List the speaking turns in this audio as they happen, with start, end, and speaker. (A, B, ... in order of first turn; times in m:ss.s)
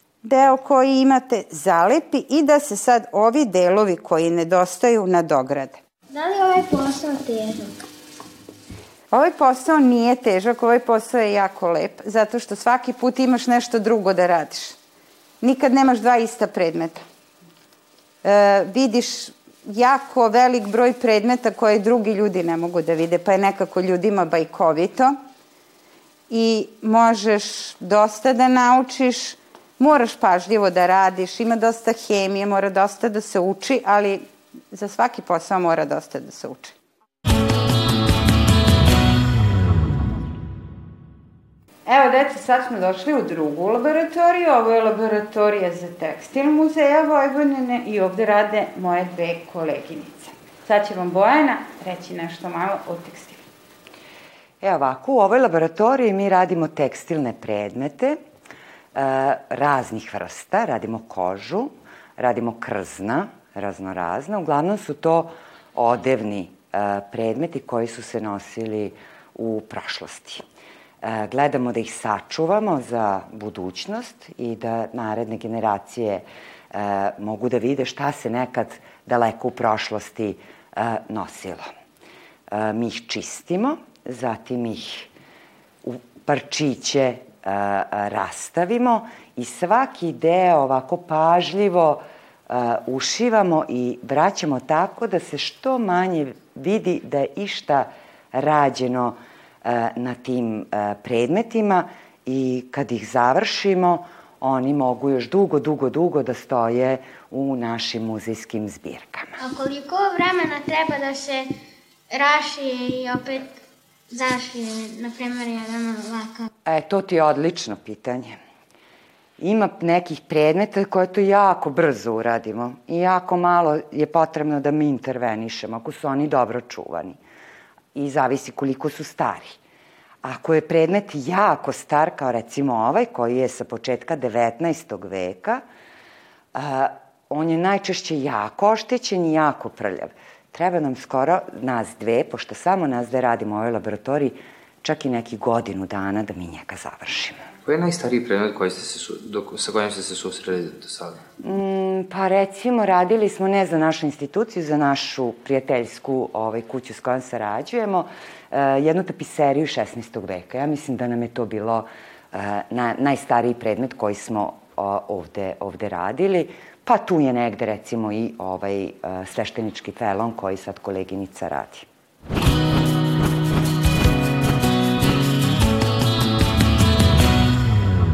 0:00.2-0:05.8 A
0:06.1-0:07.8 B
0:09.1-0:14.8 A
0:15.4-0:17.0 A
0:18.2-0:25.1 A
0:26.3-0:36.7 A
0:41.8-0:53.4 A
0:54.6-0:58.2 C
0:58.9-1:10.4 C
1:11.0-1:21.7 C
1:22.5-1:25.1 C
1:25.8-1:49.3 C
1:49.4-1:51.5 B
1:52.1-1:53.5 B
1:54.1-1:56.5 B
1:56.6-1:58.4 C
1:59.4-2:07.2 C
2:07.9-2:09.6 C
2:10.2-2:15.6 C
2:16.5-2:27.4 C
2:27.6-2:31.2 D
2:31.4-2:51.9 C